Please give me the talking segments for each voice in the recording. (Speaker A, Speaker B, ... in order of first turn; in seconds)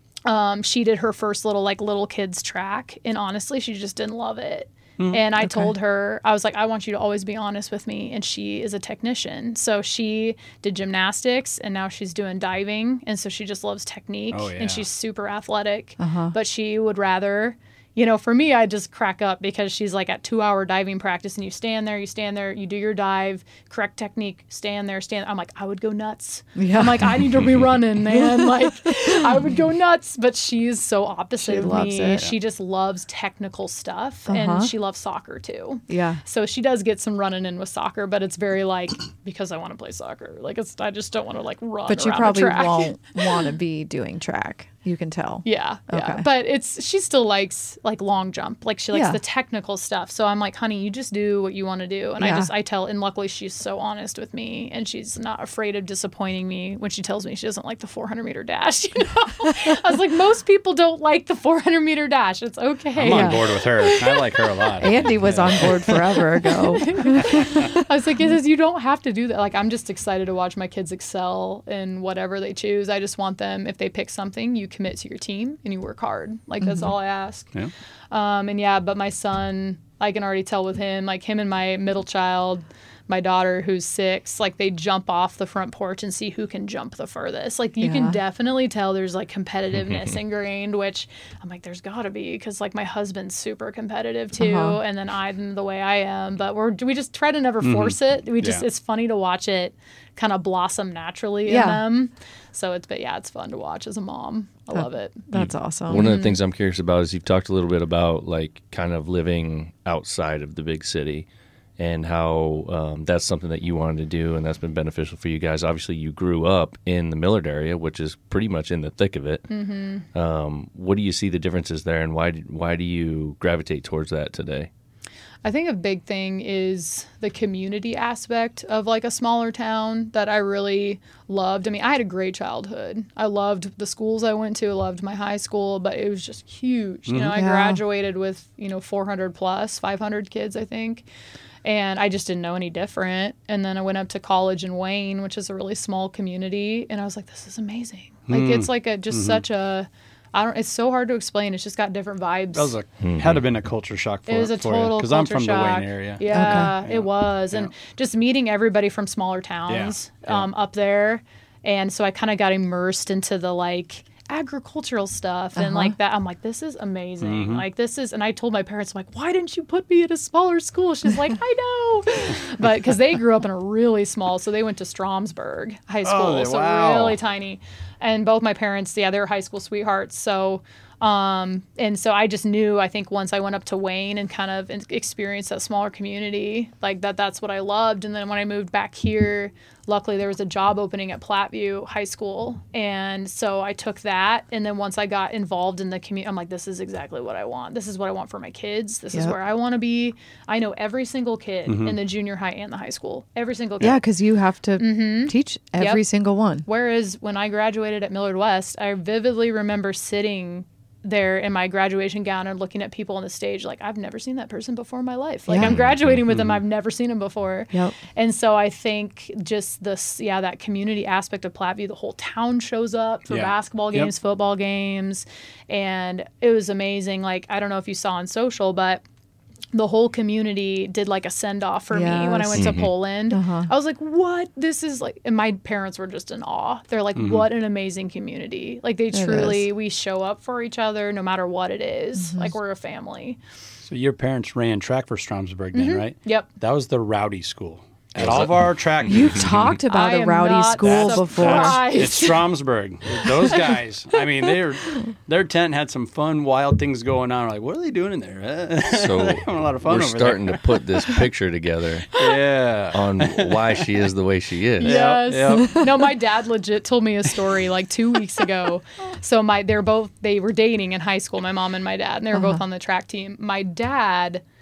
Speaker A: 0.2-43.0, 45.4-64.9, 65.5-77.5, 78.1-105.3, 105.9-106.3, 119.5-120.0, 125.4-141.1, 141.6-152.7, 154.3-204.0, 204.8-206.0, 206.6-229.0, 229.7-243.4, 245.7-246.5, 249.9-252.6, 253.2-254.2, 264.8-274.4
Speaker B: 5.4-5.7, 16.0-16.3, 26.6-27.4, 28.1-29.3, 31.4-32.3, 34.3-34.7, 35.9-36.2, 41.9-46.2, 48.9-49.2, 52.2-52.5, 63.0-63.5, 64.8-67.8, 76.6-76.9, 87.8-88.2, 94.4-94.8, 101.5-101.8, 104.7-106.0, 137.3-137.8, 156.3-156.7, 165.6-165.9, 203.8-206.6, 215.5-215.8, 231.9-233.7, 239.1-239.7, 242.2-242.5, 249.1-251.8, 272.3-272.6
Speaker C: 14.3-14.8, 62.9-66.0, 67.2-67.7, 97.6-98.6, 137.1-137.3, 148.3-149.4, 152.5-157.7, 159.7-160.5, 167.2-167.6, 176.0-177.2, 201.7-202.0, 216.3-216.6, 223.3-224.1, 237.2-237.4, 243.8-249.7, 250.8-261.2, 262.1-263.8, 264.8-266.1
Speaker D: 89.7-90.2, 105.3-111.3, 111.8-119.5, 120.1-124.7, 153.0-153.4, 215.6-216.2, 232.5-232.9, 248.2-249.6, 258.9-262.2, 262.9-265.0